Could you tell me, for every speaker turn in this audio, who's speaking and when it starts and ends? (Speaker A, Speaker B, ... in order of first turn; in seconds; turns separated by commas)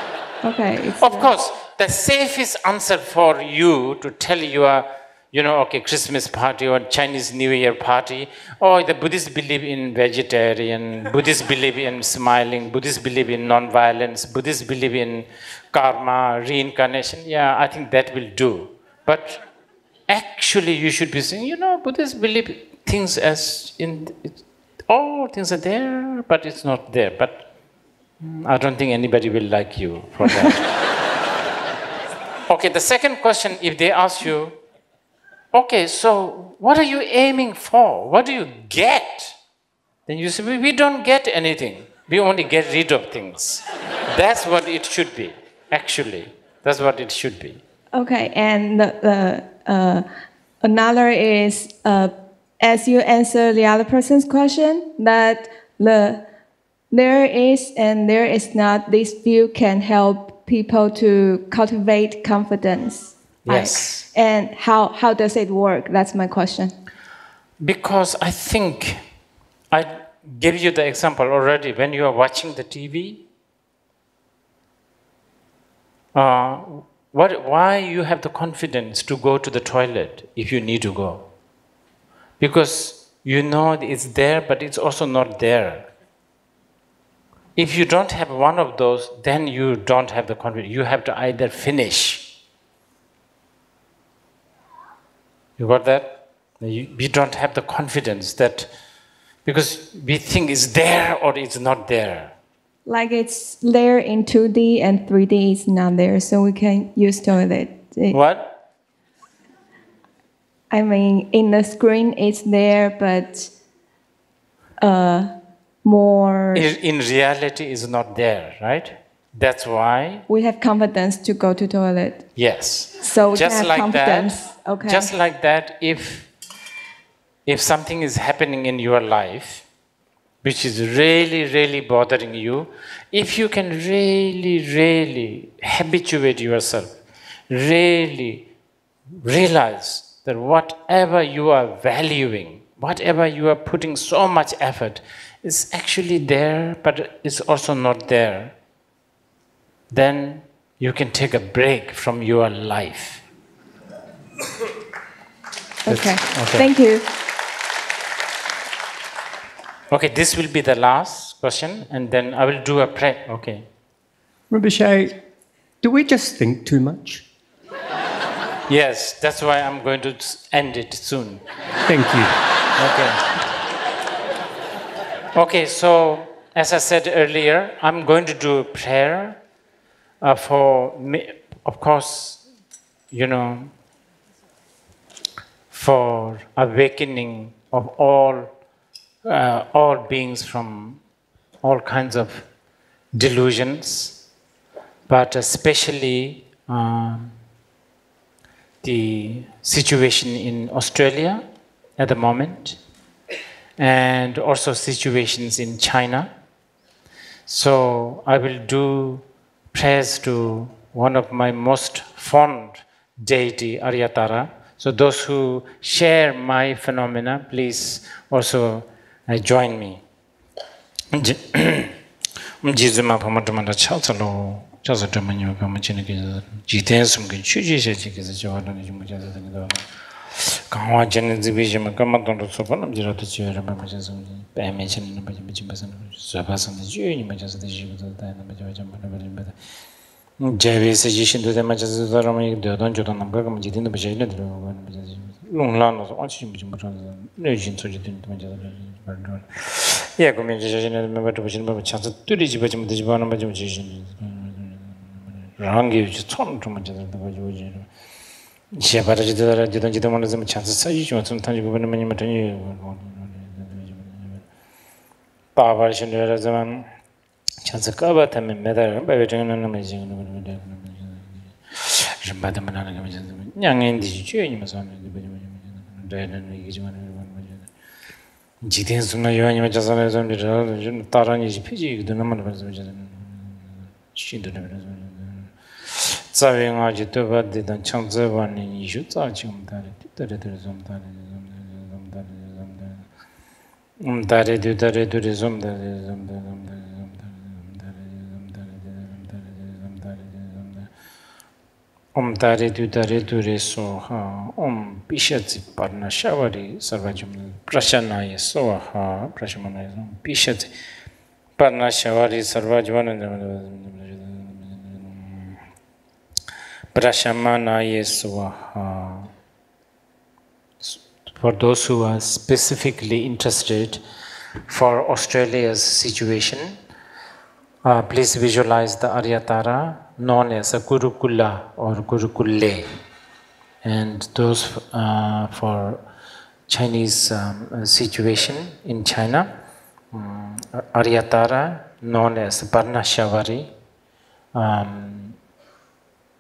Speaker A: 0.4-1.3, Speaker B: 1.0-19.4, Speaker B: 20.1-27.5, Speaker B: 28.2-30.7, Speaker B: 32.5-34.6, Speaker B: 35.5-39.4, Speaker B: 40.1-47.6, Speaker A: 47.9-50.0, Speaker A: 50.6-56.2, Speaker A: 56.9-66.7, Speaker B: 63.5-64.1, Speaker B: 67.6-69.0, Speaker B: 69.7-73.2, Speaker B: 76.1-81.3, Speaker B: 82.4-85.9, Speaker B: 87.6-92.3, Speaker B: 95.6-98.7, Speaker B: 99.5-102.3, Speaker A: 102.9-108.2, Speaker B: 108.1-108.5, Speaker A: 110.7-113.5, Speaker A: 114.8-115.3, Speaker A: 115.8-116.7, Speaker B: 116.5-120.2, Speaker A: 120.3-122.3, Speaker B: 122.4-126.3, Speaker A: 123.0-125.1, Speaker B: 127.5-129.7, Speaker B: 130.4-137.0, Speaker B: 137.5-138.5, Speaker B: 139.2-148.5, Speaker B: 149.9-153.2, Speaker A: 155.8-157.1, Speaker B: 155.9-156.7, Speaker B: 159.9-163.7, Speaker C: 164.5-165.2, Speaker C: 165.8-167.2, Speaker B: 168.7-171.4, Speaker C: 171.9-172.3, Speaker B: 172.8-173.2, Speaker B: 175.3-179.4, Speaker B: 180.2-182.4, Speaker B: 183.1-183.7, Speaker B: 185.7-188.5, Speaker B: 189.2-191.0, Speaker B: 191.6-192.5, Speaker B: 193.1-194.2, Speaker B: 195.1-197.3, Speaker B: 198.8-201.4, Speaker B: 202.0-202.8, Speaker B: 203.8-206.3, Speaker B: 207.5-220.0, Speaker B: 221.1-221.9, Speaker B: 222.6-229.8, Speaker B: 230.4-239.5, Speaker B: 240.4-257.9, Speaker B: 258.7-264.4, Speaker B: 265.6-266.9, Speaker B: 267.6-277.7, Speaker B: 278.6-293.0, Speaker B: 294.0-300.9, Speaker B: 302.1-310.7, Speaker B: 311.6-315.6, Speaker B: 316.9-319.3, Speaker B: 320.8-324.0, Speaker B: 324.7-326.8, Speaker B: 327.8-332.9, Speaker B: 333.8-336.0, Speaker B: 336.7-339.5, Speaker B: 340.1-343.7, Speaker B: 344.6-345.4